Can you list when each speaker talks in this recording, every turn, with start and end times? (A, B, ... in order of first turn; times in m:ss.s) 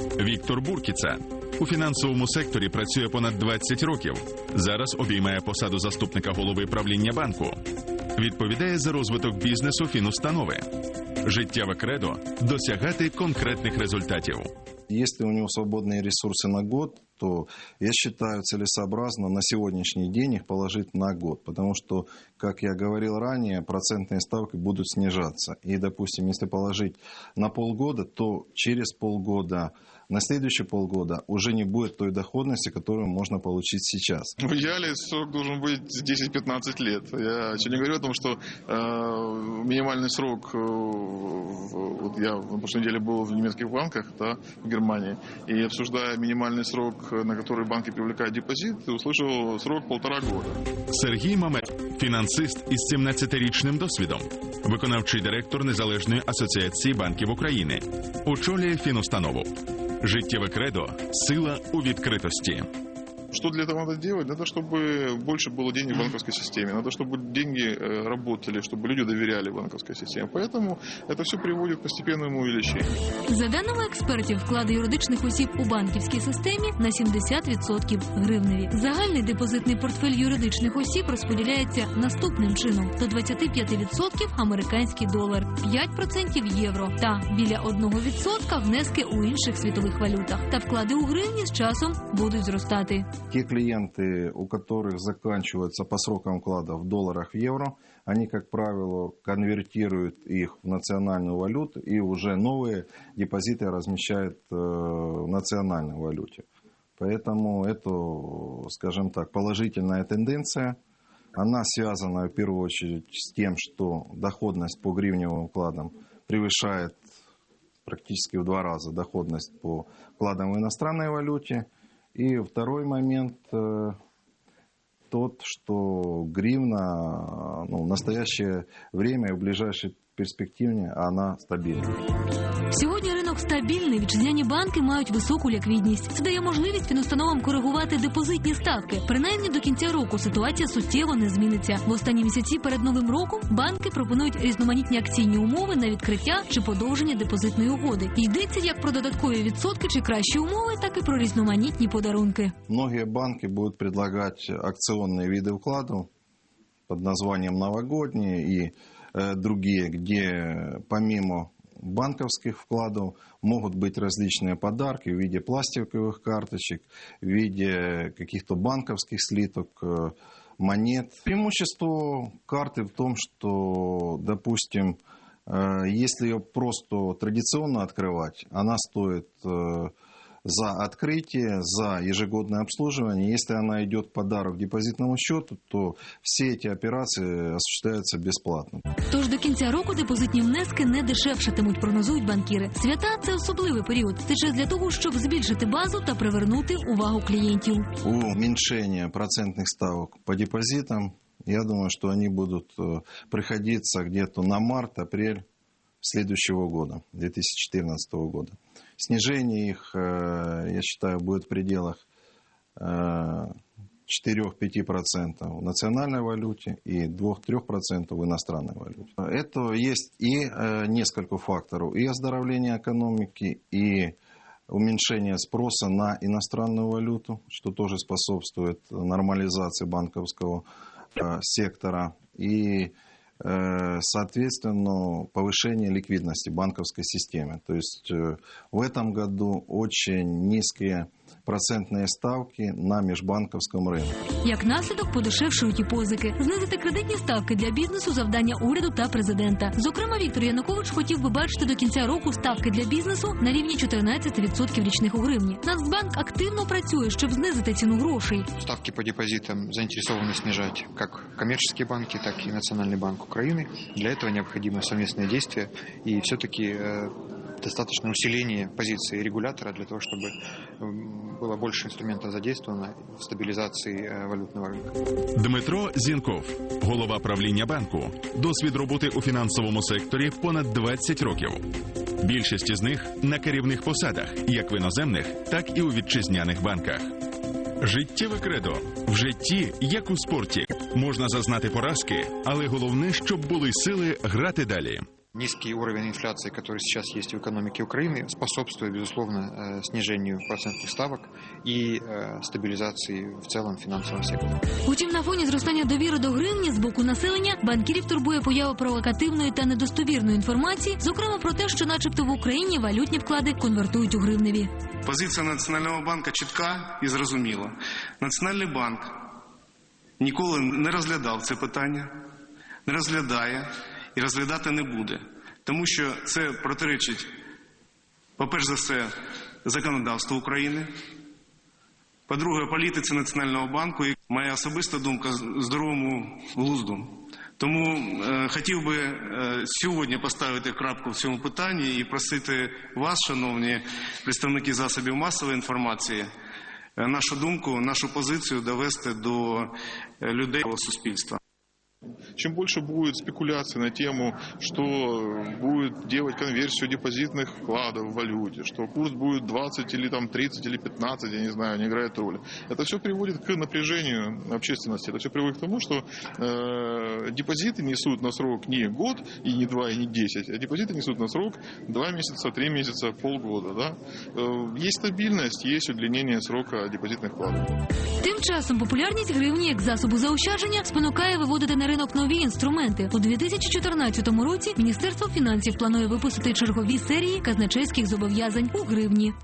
0:00.2-0:07.6 A
0:08.2-0:10.6 A
0:11.2-0:14.5 A
0:14.9-0:34.3 B
0:34.4-0:50.6 C
0:50.9-0:59.5 A
1:00.0-1:02.7 A
1:03.3-1:12.9 C
1:13.3-1:33.0 D
1:33.3-1:46.4 B
1:47.0-1:50.8 B
1:51.4-1:57.0 B
1:57.8-2:04.0 B
2:05.1-2:12.0 B
2:12.7-2:32.5 D
2:32.7-2:36.1 B
2:36.9-2:59.9 B
3:00.4-3:08.8 B
3:09.1-3:17.9 D
3:18.0-3:25.4 B
3:26.0-3:32.0 B
3:32.8-3:33.5 B
3:34.1-3:44.1 B
3:44.7-3:50.6 B
3:51.2-4:04.2 B
4:04.4-4:18.5 D
4:18.6-4:27.1 E
4:27.6-4:34.9 E
4:35.3-4:41.6 A
4:42.2-4:47.1 A
4:47.8-4:55.0 A
4:55.3-5:04.5 E
5:04.9-5:14.7 D
5:15.0-5:19.2 F
5:20.2-5:22.1 F
5:22.8-5:27.3 F
5:28.4-5:29.1 F
5:29.6-5:30.9 F
5:32.3-5:46.3 F
5:47.0-5:49.7 F
5:50.2-5:51.4 F
5:52.4-6:17.7 C
6:18.2-6:29.3 D